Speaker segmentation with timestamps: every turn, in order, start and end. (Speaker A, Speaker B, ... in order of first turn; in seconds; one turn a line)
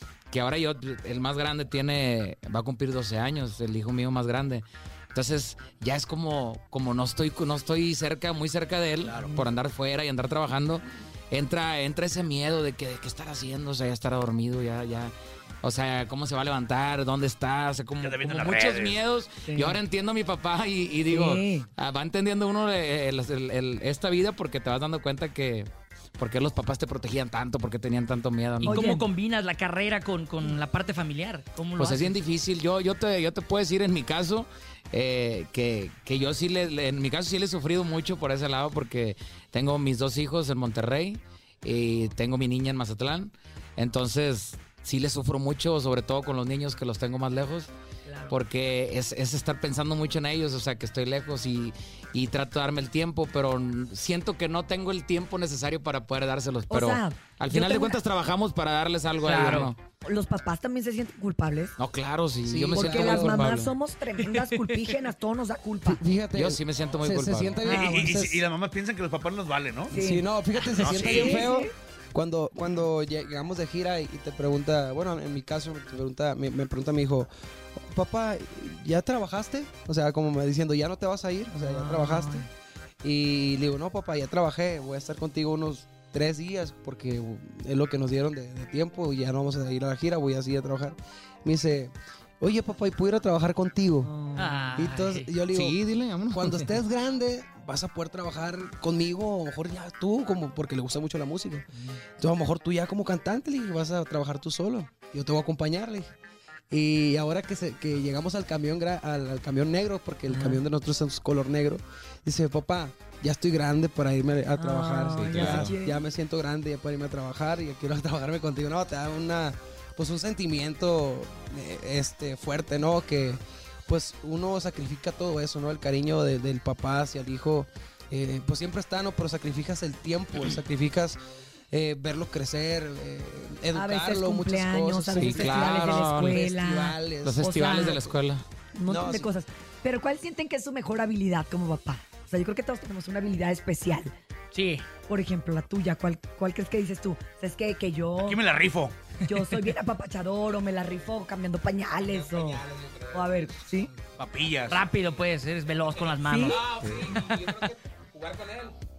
Speaker A: 0.3-28.8
Speaker B: 9.1-9.3
Speaker C: 9.2-9.4
Speaker B: 18.0-19.0
Speaker C: 19.4-19.8
Speaker C: 21.1-21.7
Speaker D: 28.6-32.2
Speaker C: 28.6-29.0
Speaker A: 31.8-47.7
Speaker A: 48.3-59.8
Speaker C: 56.7-58.0
Speaker D: 59.2-59.7
Speaker C: 60.0-61.7
Speaker A: 61.8-63.7
Speaker E: 62.4-63.5
Speaker C: 62.7-66.0
Speaker D: 64.2-64.8
Speaker E: 65.8-68.5
Speaker A: 66.3-67.6
Speaker C: 67.6-68.1
Speaker B: 67.7-69.9
Speaker C: 69.9-70.3
Speaker E: 69.9-82.5
Speaker B: 70.7-71.5
Speaker C: 70.9-71.7
Speaker C: 81.5-82.5
Speaker E: 83.0-94.1
Speaker C: 94.0-94.7
Speaker D: 94.3-95.3
Speaker E: 94.8-95.8
Speaker A: 95.5-96.8
Speaker E: 96.3-101.7
Speaker E: 102.2-106.1
Speaker E: 106.7-131.2
Speaker C: 110.3-110.6
Speaker C: 114.6-116.0
Speaker A: 115.3-115.7
Speaker F: 115.4-115.7
Speaker E: 131.7-137.5
Speaker C: 133.7-138.1
Speaker A: 135.2-136.4
Speaker A: 137.2-138.4
Speaker C: 138.7-144.1
Speaker E: 138.9-139.3
Speaker D: 144.5-144.9
Speaker C: 145.1-148.4
Speaker B: 148.2-148.9
Speaker C: 149.2-153.9
Speaker F: 152.0-153.8
Speaker B: 154.2-154.8
Speaker D: 154.7-156.7
Speaker F: 155.9-158.7
Speaker C: 156.2-156.6
Speaker A: 156.8-157.1